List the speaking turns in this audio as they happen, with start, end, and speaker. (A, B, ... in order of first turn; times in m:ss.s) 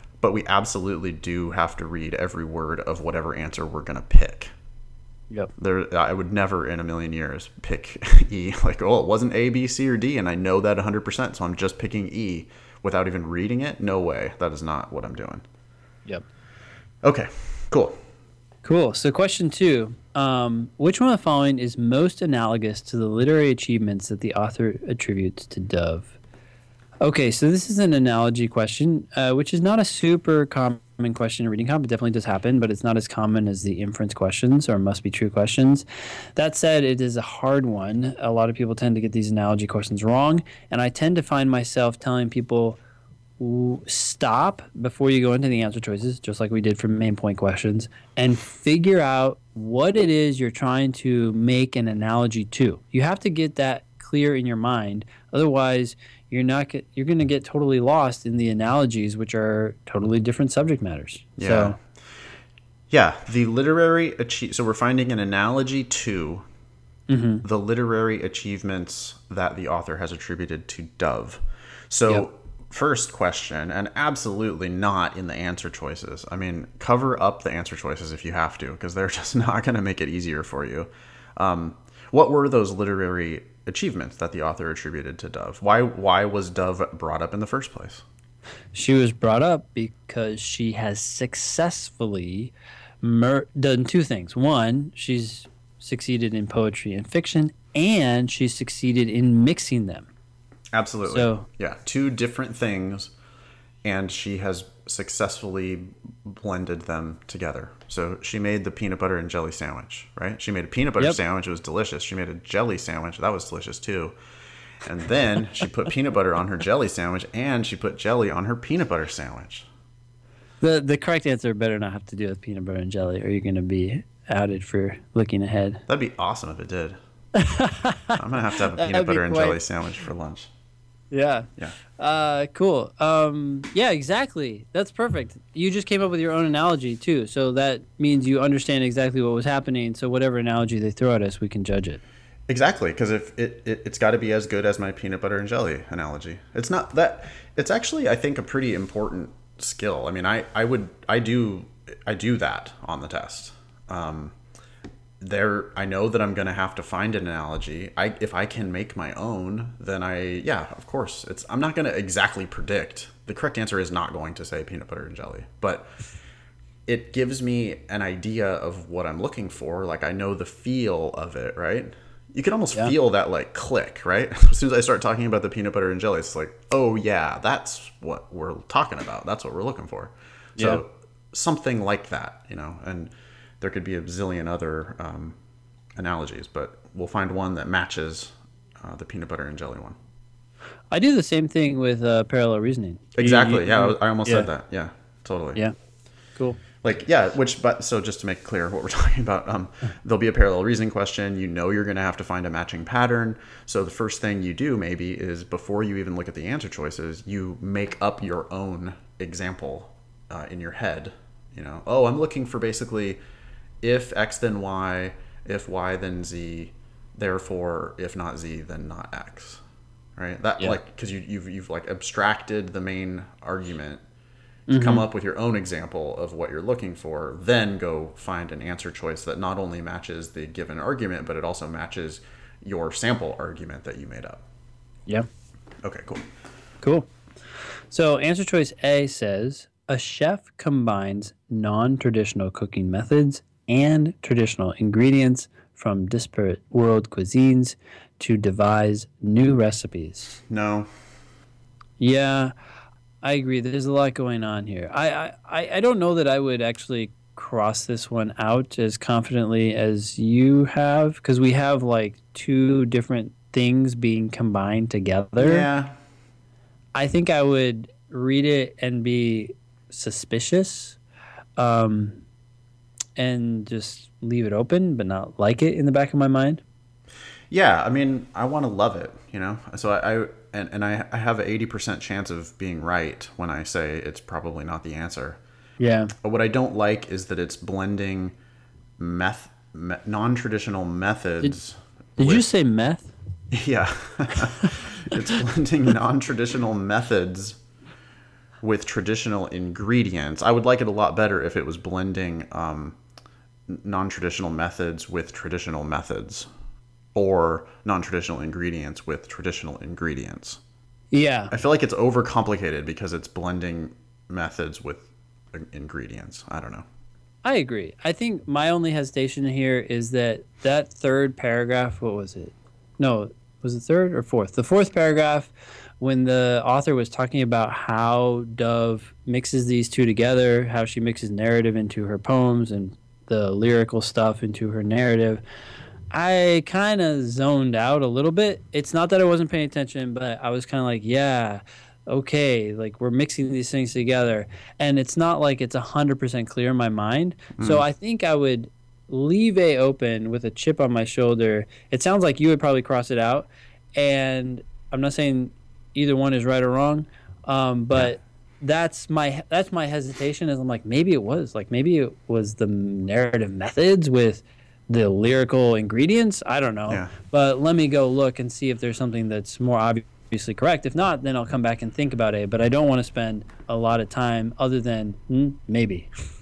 0:00.2-0:04.5 A
0:05.6-0:15.4 A
0:17.0-0:18.0 A
0:18.6-0:26.2 B
0:27.0-0:35.8 B
0:36.4-0:42.8 B
0:43.4-1:01.8 B
1:01.4-1:01.8 A
1:02.9-1:06.4 A
1:07.1-1:07.4 B
1:07.4-1:28.0 A
1:28.7-1:40.1 B
1:40.7-1:43.1 A
1:41.0-1:41.5 B
1:43.8-1:54.1 A
1:54.8-1:59.7 A
2:00.6-2:05.8 B
2:05.9-2:07.0 A
2:07.3-2:09.6 B
2:08.1-2:10.5 A
2:11.1-2:22.0 B
2:22.5-2:34.3 A
2:35.2-2:45.9 A
2:46.9-3:05.4 A
3:00.6-3:00.8 B
3:06.0-3:10.0 A
3:10.9-3:14.5 B
3:13.1-3:15.6 A
3:16.8-3:33.2 A
3:33.8-3:39.6 A
3:40.2-3:44.0 A
3:44.7-3:45.0 B
3:44.7-3:54.4 A
3:55.8-3:56.3 A
3:56.8-3:57.1 B
3:57.9-4:10.4 B
4:10.5-4:10.9 A
4:12.0-4:12.5 B
4:13.2-4:25.7 B
4:25.4-4:25.9 A
4:26.9-4:31.0 B
4:31.6-4:32.2 B
4:33.2-4:36.6 B
4:37.5-4:45.4 A
4:45.8-4:46.1 B
4:46.2-4:48.3 A
4:49.0-4:52.4 A
4:52.2-4:53.1 B
4:53.5-4:57.6 A
4:58.6-5:03.0 A
5:03.7-5:06.5 A
5:07.1-5:10.6 A
5:11.1-5:11.5 B
5:11.5-5:16.8 A
5:17.4-5:35.4 B
5:36.1-6:16.1 B
5:47.6-5:47.8 A
6:06.9-6:07.1 A